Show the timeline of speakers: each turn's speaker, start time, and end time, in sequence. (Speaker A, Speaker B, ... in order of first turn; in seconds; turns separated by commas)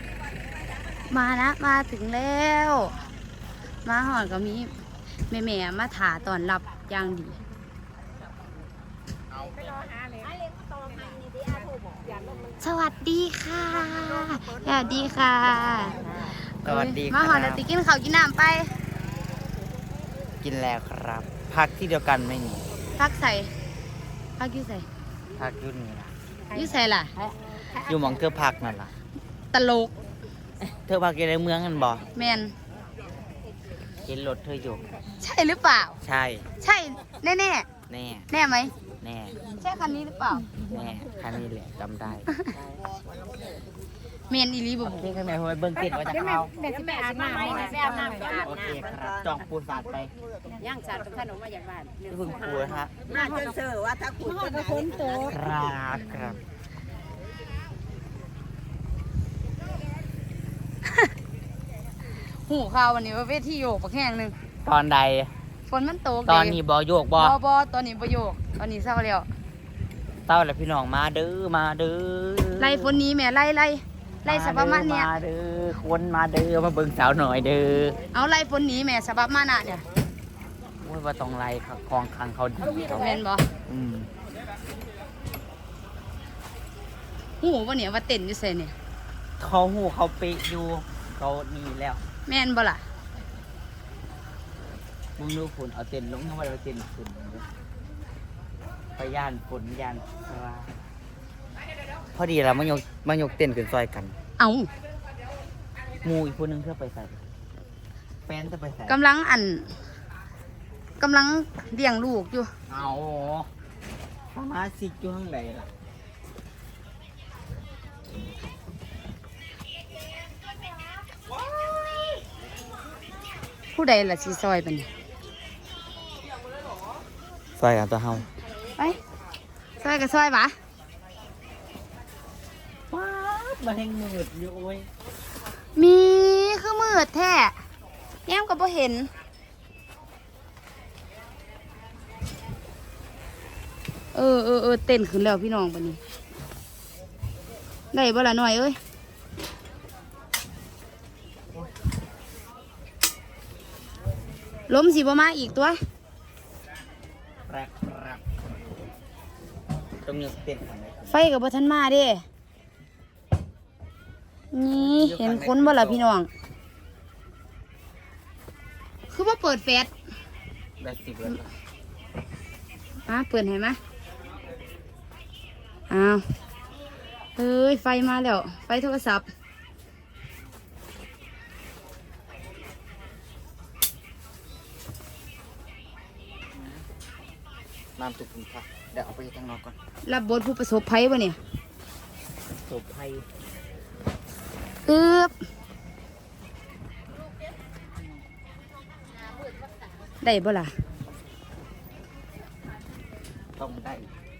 Speaker A: 1.1-2.9, Speaker A: 3.9-4.7, Speaker A: 5.3-7.4, Speaker A: 12.6-18.7, Speaker B: 16.6-17.6, Speaker B: 20.4-22.6, Speaker A: 23.0-23.5, Speaker A: 24.4-24.9, Speaker B: 25.4-26.1, Speaker A: 26.5-27.1, Speaker C: 27.2-27.9, Speaker B: 27.8-28.9, Speaker A: 29.5-29.9, Speaker B: 30.6-32.1, Speaker A: 32.1-32.5, Speaker B: 34.1-34.8, Speaker A: 35.2-36.0, Speaker B: 36.0-36.5, Speaker A: 36.6-37.7, Speaker B: 37.9-38.3, Speaker A: 38.3-38.7, Speaker B: 39.0-39.4, Speaker A: 39.6-40.5, Speaker B: 40.6-42.3, Speaker A: 44.3-45.1, Speaker B: 44.8-46.5, Speaker C: 46.1-48.8, Speaker B: 47.6-50.1, Speaker C: 50.6-55.2, Speaker B: 52.1-53.0, Speaker A: 54.6-55.3, Speaker B: 55.3-56.4, Speaker A: 62.2-64.3, Speaker B: 64.7-65.3, Speaker A: 65.7-66.6, Speaker B: 66.3-67.4, Speaker A: 67.2-69.3, Speaker B: 70.3-73.0, Speaker A: 72.6-75.1, Speaker B: 74.2-78.0, Speaker A: 78.1-79.8, Speaker B: 80.8-84.1, Speaker A: 82.9-83.5, Speaker A: 87.4-88.7, Speaker B: 89.4-92.0, Speaker A: 92.3-92.8, Speaker B: 95.2-97.5, Speaker B: 99.0-100.7, Speaker B: 102.2-104.2, Speaker A: 104.4-104.7, Speaker B: 106.0-107.2, Speaker B: 108.3-109.0, Speaker A: 108.9-109.8, Speaker A: 111.0-112.5, Speaker B: 112.7-113.5, Speaker B: 114.3-115.7, Speaker A: 123.7-124.9, Speaker B: 127.6-128.3, Speaker A: 129.8-130.6, Speaker B: 132.9-134.9, Speaker A: 135.8-137.5, Speaker A: 138.3-139.1, Speaker A: 144.1-146.0, Speaker A: 147.9-148.8, Speaker A: 154.7-155.8, Speaker B: 157.5-158.2, Speaker B: 160.0-161.2, Speaker A: 161.1-162.2, Speaker A: 164.5-166.3, Speaker B: 164.7-166.0, Speaker A: 169.1-169.9, Speaker B: 170.8-171.5, Speaker A: 173.1-173.8, Speaker A: 175.9-176.2, Speaker A: 177.4-179.3, Speaker B: 188.0-189.8, Speaker A: 190.1-191.4, Speaker B: 192.7-193.3, Speaker A: 194.9-195.3, Speaker A: 200.2-200.7, Speaker B: 203.6-204.1